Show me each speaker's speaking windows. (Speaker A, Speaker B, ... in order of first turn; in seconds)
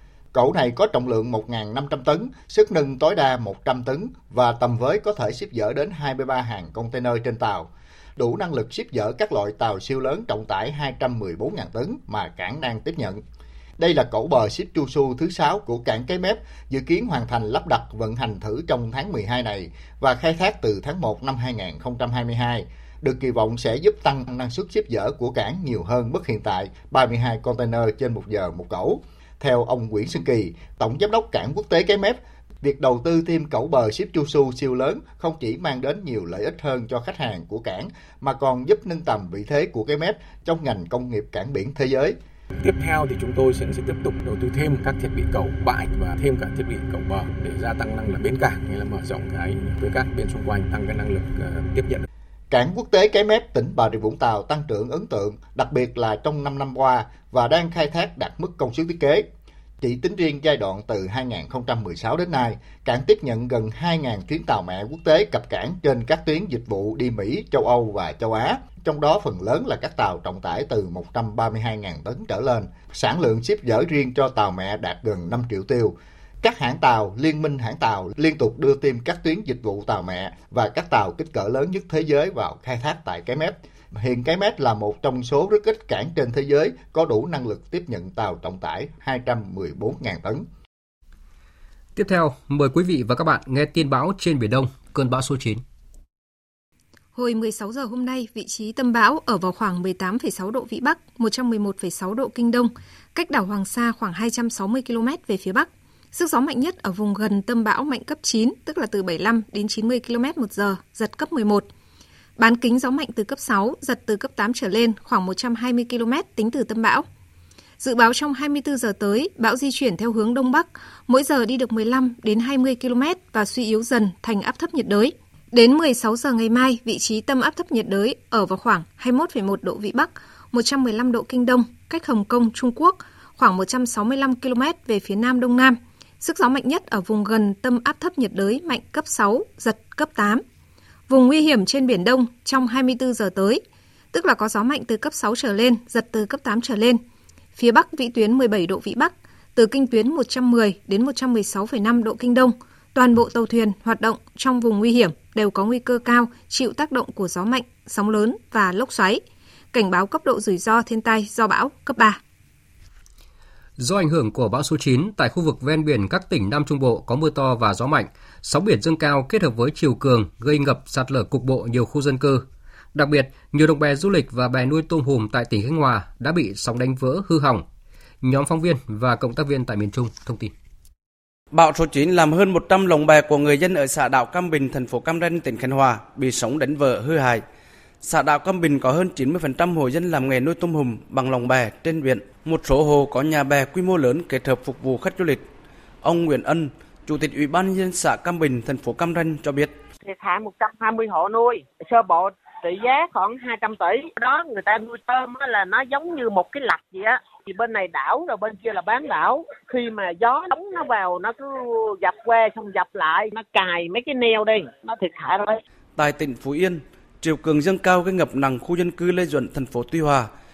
Speaker A: 0.3-13.2, 13.8-42.2, 52.5-59.3, 59.8-90.5
Speaker B: 42.6-52.1
Speaker C: 92.0-95.6, 163.8-177.7, 178.2-180.5
Speaker D: 97.2-111.7, 112.4-117.1, 117.8-140.4, 141.1-143.6, 144.1-147.0, 147.6-162.2
Speaker E: 181.5-187.4, 188.0-195.5, 196.0-199.7, 216.0-220.3
Speaker F: 200.0-215.6